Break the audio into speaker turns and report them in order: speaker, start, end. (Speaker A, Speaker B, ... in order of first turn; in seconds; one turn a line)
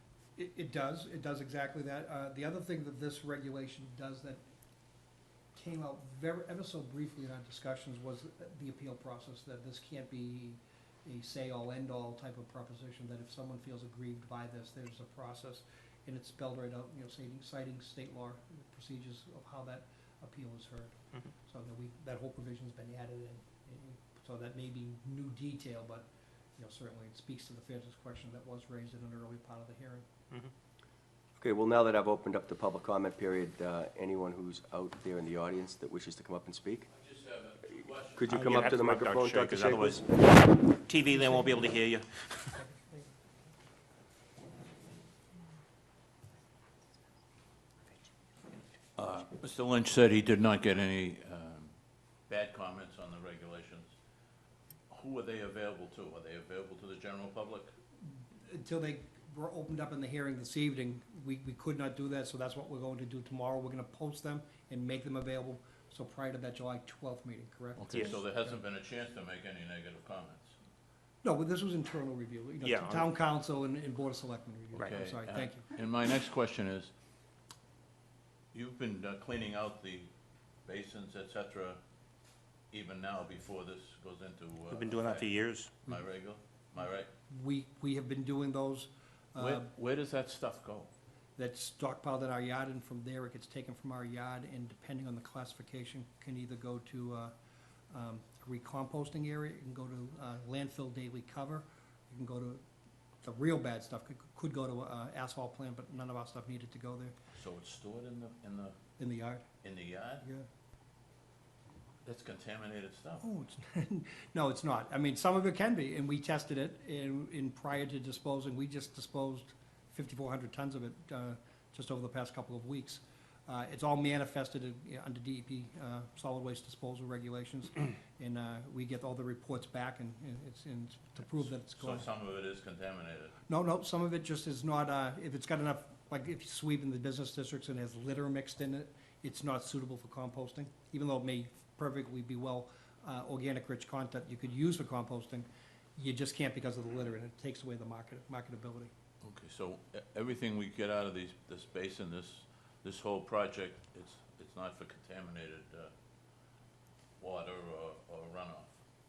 Speaker A: 0.4-4.4
Speaker A: 5.5-30.1
Speaker B: 31.4-36.9
Speaker C: 36.9-38.7
Speaker B: 38.1-40.0
Speaker D: 38.3-42.6
Speaker C: 49.0-51.7
Speaker C: 52.3-53.9
Speaker C: 54.9-57.7
Speaker A: 58.0-68.5
Speaker C: 67.8-70.5
Speaker A: 71.2-75.6
Speaker D: 72.6-73.1
Speaker C: 74.8-76.9
Speaker C: 78.5-80.1
Speaker C: 80.6-81.8
Speaker C: 82.7-87.1
Speaker D: 84.7-85.7
Speaker A: 87.3-89.7
Speaker C: 89.4-90.9
Speaker A: 91.4-97.3
Speaker A: 97.9-102.6
Speaker A: 103.2-107.1
Speaker C: 107.3-108.8
Speaker A: 109.0-109.5
Speaker C: 109.6-110.2
Speaker C: 112.0-113.2
Speaker A: 113.2-132.1
Speaker C: 131.4-133.3
Speaker A: 133.5-148.9
Speaker C: 149.2-155.9
Speaker C: 157.2-158.8